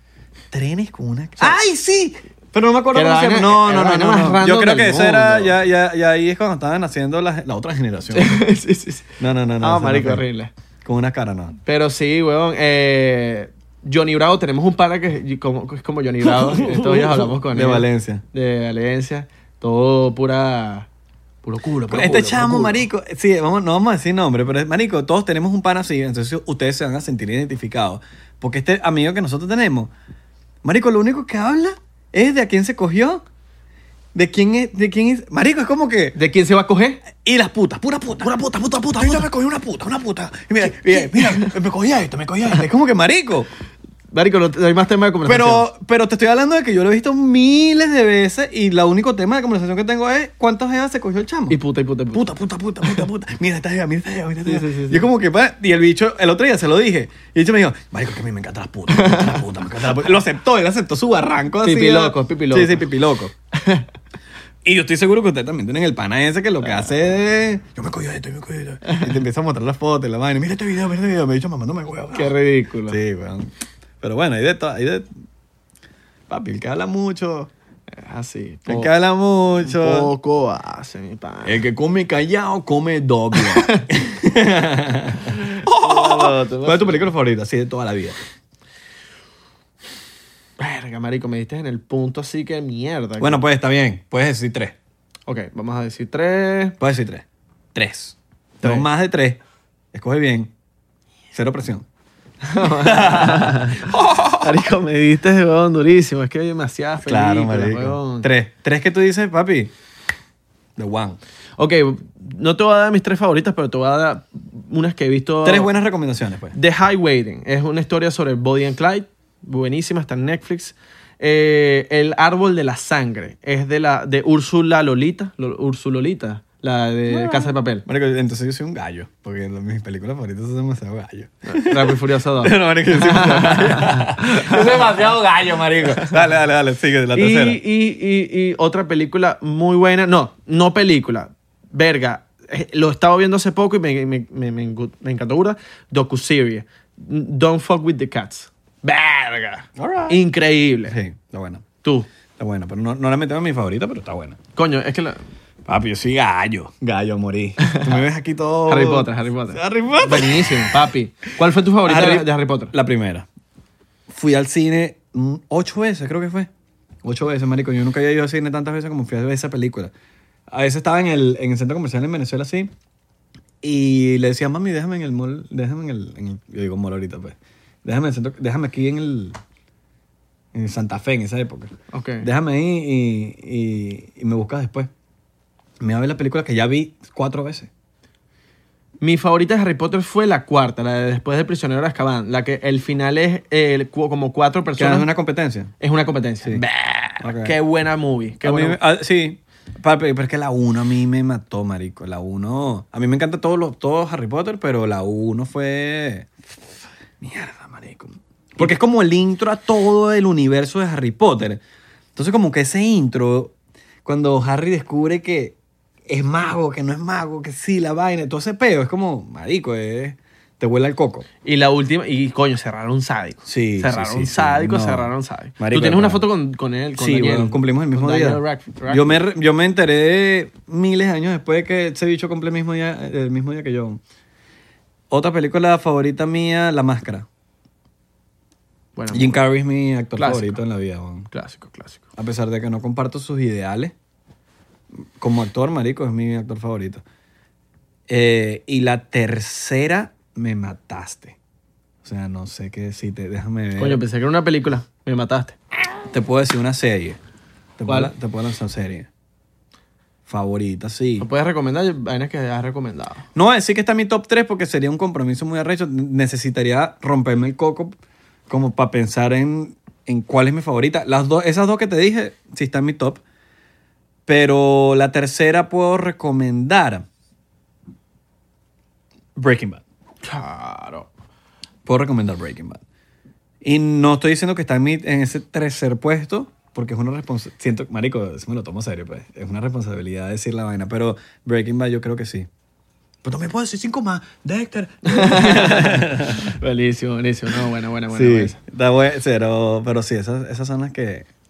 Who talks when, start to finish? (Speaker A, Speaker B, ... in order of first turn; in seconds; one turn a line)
Speaker A: 0.5-8.4
Speaker B: 2.9-5.5
Speaker B: 8.1-10.5
Speaker A: 9.2-10.2
Speaker A: 10.8-11.6
Speaker B: 11.7-20.9
Speaker A: 16.3-18.2
Speaker B: 21.4-22.8
Speaker A: 21.9-29.9
Speaker A: 30.6-33.2
Speaker A: 34.1-36.2
Speaker B: 36.1-37.0
Speaker A: 37.2-43.5
Speaker B: 38.8-39.3
Speaker B: 40.6-41.5
Speaker B: 44.1-45.7
Speaker A: 45.2-51.6
Speaker B: 51.5-52.3
Speaker A: 52.1-63.3
Speaker B: 54.5-55.1
Speaker B: 58.9-59.9
Speaker B: 61.6-62.9
Speaker B: 63.5-63.9
Speaker A: 64.7-72.3
Speaker B: 66.6-66.9
Speaker B: 68.9-69.2
Speaker B: 72.1-73.0
Speaker A: 72.9-75.1
Speaker A: 76.3-77.5
Speaker B: 77.9-78.9
Speaker A: 78.7-80.1
Speaker B: 79.6-81.6
Speaker A: 81.4-88.2
Speaker B: 83.3-83.8
Speaker B: 85.3-87.1
Speaker B: 90.6-93.4
Speaker A: 93.2-94.8
Speaker B: 95.3-96.8
Speaker A: 96.8-97.2
Speaker A: 97.8-99.4
Speaker B: 98.6-98.9
Speaker A: 99.9-100.5
Speaker A: 101.3-101.9
Speaker B: 102.4-108.3
Speaker A: 102.6-104.4
Speaker A: 107.0-109.7
Speaker A: 110.8-111.2
Speaker B: 111.6-115.7
Speaker A: 115.4-116.6
Speaker B: 116.5-127.8
Speaker A: 127.1-137.6
Speaker B: 131.5-135.0
Speaker B: 135.8-136.2
Speaker B: 137.1-151.0
Speaker A: 149.8-150.2
Speaker A: 150.9-151.7
Speaker A: 152.4-154.4
Speaker B: 154.6-155.2
Speaker A: 155.7-160.8
Speaker B: 157.7-158.0
Speaker B: 158.7-162.7
Speaker A: 161.8-163.3
Speaker A: 164.1-166.5
Speaker A: 167.0-169.9
Speaker A: 170.5-172.7
Speaker A: 173.6-179.4
Speaker A: 180.5-184.9
Speaker B: 181.9-182.3
Speaker A: 185.8-187.7
Speaker B: 189.0-195.1
Speaker A: 194.8-195.7
Speaker B: 195.8-198.8
Speaker A: 197.2-197.6
Speaker A: 198.4-206.4
Speaker A: 207.2-211.6
Speaker A: 212.2-213.5
Speaker A: 214.1-215.6
Speaker A: 216.1-221.3
Speaker B: 221.4-229.2
Speaker A: 223.4-226.2
Speaker A: 227.0-234.0
Speaker A: 235.1-237.3
Speaker B: 238.9-239.4
Speaker A: 239.1-241.3
Speaker B: 240.2-240.6
Speaker B: 241.3-242.0
Speaker A: 242.2-243.9
Speaker A: 245.2-247.0
Speaker A: 248.1-251.4
Speaker A: 252.0-254.0
Speaker B: 253.8-255.6
Speaker A: 256.1-257.2
Speaker A: 257.8-259.1
Speaker B: 257.9-258.1
Speaker A: 260.3-261.3
Speaker B: 261.2-263.2
Speaker A: 263.4-268.0
Speaker A: 268.5-273.2
Speaker A: 274.3-277.1
Speaker A: 279.4-279.8
Speaker B: 280.2-281.1
Speaker A: 281.9-282.8
Speaker A: 283.6-292.5
Speaker A: 293.2-296.5
Speaker B: 295.1-298.6
Speaker A: 298.1-301.3